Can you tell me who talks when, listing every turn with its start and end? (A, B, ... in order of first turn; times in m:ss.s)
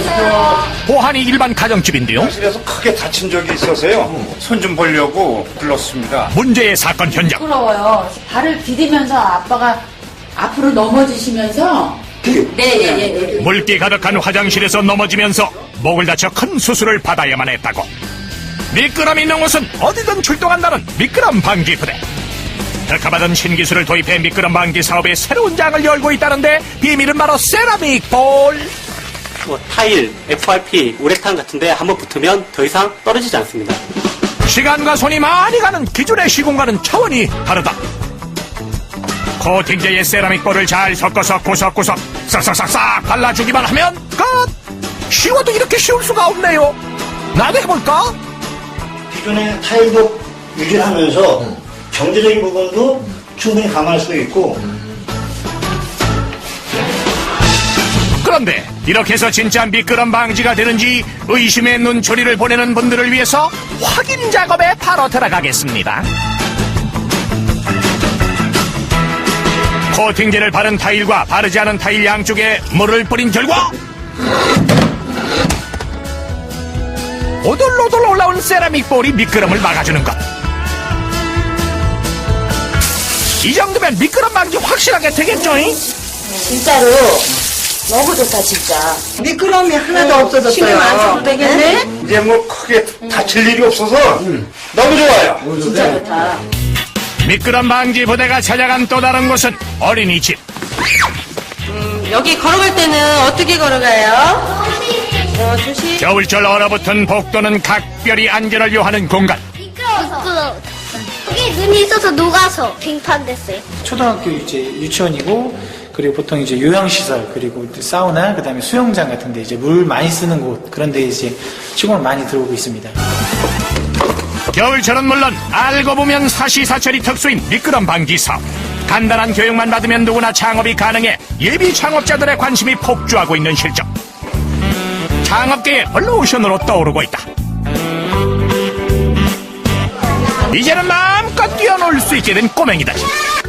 0:00.8-0:02.3 A
0:02.2-0:06.3 B
0:06.3-0:07.5 A
0:07.3-0:09.8 C
0:10.4-0:13.4 C
0:13.3-0:17.9 A
0:18.7-0:22.0 A
0:22.9-0:28.7 A
0:29.4-0:33.8 D
0:34.4-0:37.8 A
0:39.4-0:44.5 A
0:45.1-0:46.8 A
0:47.3-0:48.2 A
0:49.1-0:54.6 E
0:58.2-1:06.0 A
1:09.9-1:13.7 A
1:17.4-1:20.2 A
1:23.4-1:25.8 A
1:26.4-1:27.1 C
1:26.5-1:27.2 F
1:27.9-1:29.0 C
1:29.2-1:31.9 F
1:29.9-1:31.9 C
1:32.0-1:36.0 B
1:35.6-1:36.4 C
1:37.2-1:40.4 A
1:41.7-1:46.0 F
1:46.0-1:49.4 A
1:49.8-1:50.6 G
1:51.3-1:53.6 G
1:53.8-2:03.0 H
2:04.5-2:13.9 A
2:15.2-2:17.2 A
2:20.5-2:23.1 A